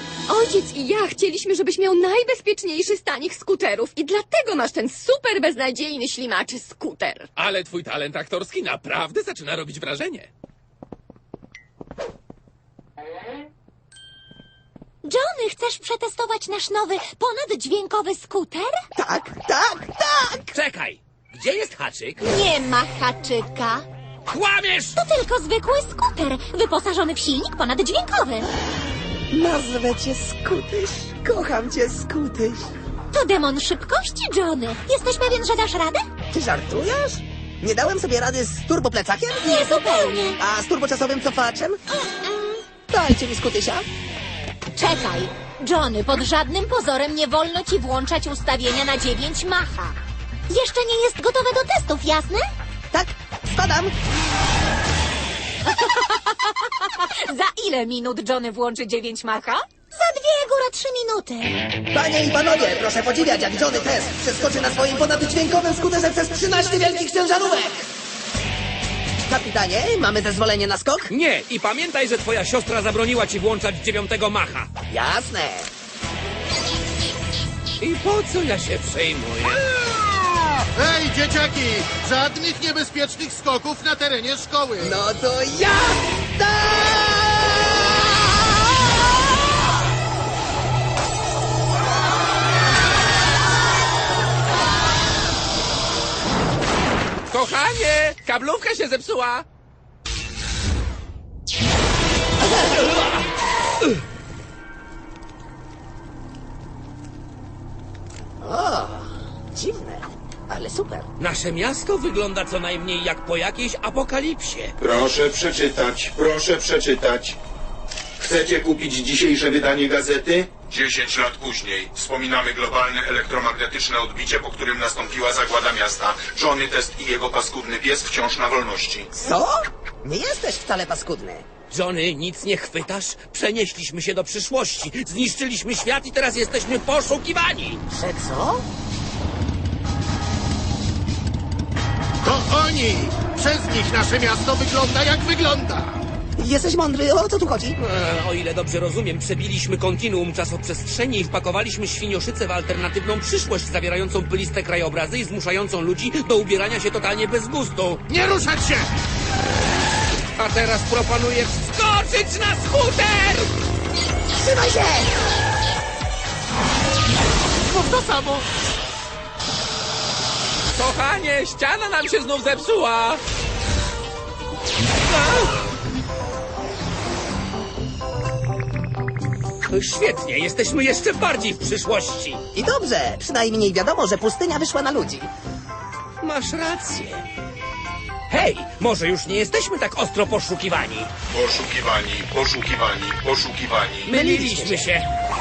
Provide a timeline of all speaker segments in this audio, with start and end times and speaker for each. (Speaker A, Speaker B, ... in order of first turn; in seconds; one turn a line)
Speaker A: 0.3-7.3
Speaker B: 7.4-10.3
Speaker C: 15.0-18.8
Speaker D: 19.0-20.5
Speaker E: 20.5-22.2
Speaker C: 22.2-23.9
Speaker E: 24.3-25.0
Speaker C: 25.0-28.5
Speaker D: 29.3-32.7
Speaker C: 33.1-36.0
Speaker D: 36.3-41.8
Speaker C: 39.4-40.4
Speaker D: 42.9-43.9
Speaker C: 44.8-50.0
Speaker C: 50.5-52.5
Speaker D: 52.9-53.9
Speaker C: 55.7-61.6
Speaker D: 61.9-67.9
Speaker D: 69.3-71.1
Speaker E: 71.1-74.7
Speaker D: 74.9-75.7
Speaker E: 77.8-79.7
Speaker F: 80.8-84.9
Speaker D: 84.8-88.4
Speaker B: 97.3-99.5
Speaker D: 108.4-111.1
Speaker E: 111.2-114.8
Speaker G: 114.8-117.3
Speaker G: 118.2-129.1
Speaker D: 129.2-131.4
Speaker E: 131.7-137.8
Speaker D: 137.9-138.6
Speaker F: 142.2-146.0
Speaker D: 146.4-147.8
Speaker E: 147.8-158.0
Speaker F: 158.1-158.9
Speaker E: 160.4-163.5
Speaker D: 164.4-165.2
Speaker B: 170.8-173.2
Speaker E: 175.2-175.5
Speaker E: 179.7-182.4
Speaker D: 182.5-185.3
Speaker E: 186.2-187.3
Speaker E: 188.3-191.1
Speaker G: 191.3-194.1
Speaker E: 194.0-195.1
Speaker D: 194.1-194.9